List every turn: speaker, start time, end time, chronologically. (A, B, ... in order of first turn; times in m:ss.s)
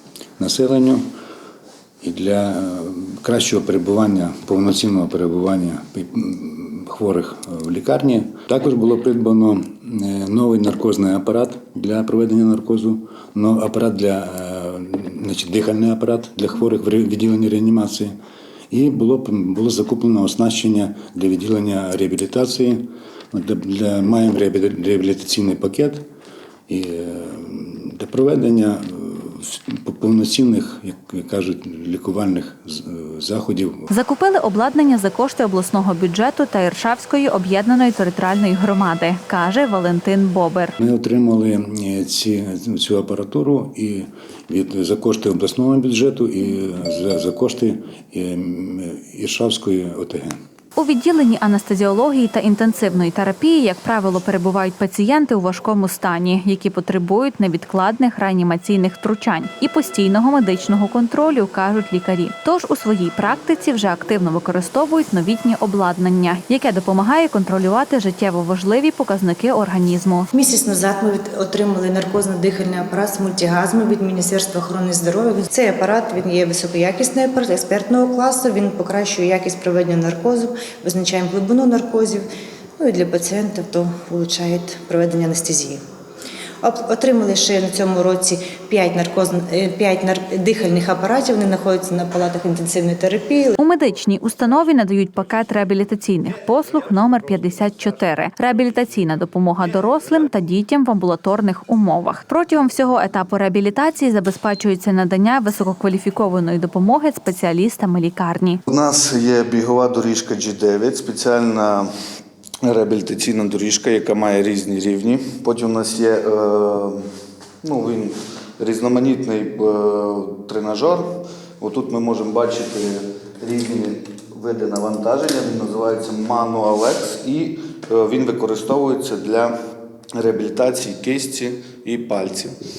0:00.4-0:01.0 A
0:02.0-0:18.1 A
0:18.7-0:26.0 A
0:26.7-0:33.8 A
0:33.9-0:40.8 B
0:40.8-0:50.4 A
0:50.8-1:10.3 B
1:10.3-1:22.2 C
1:22.8-1:25.8 C
1:26.6-1:33.6 C
1:33.6-1:48.6 B
1:48.7-1:51.9 D
1:52.6-1:57.0 D
1:57.6-2:09.5 D
2:10.2-2:12.6 D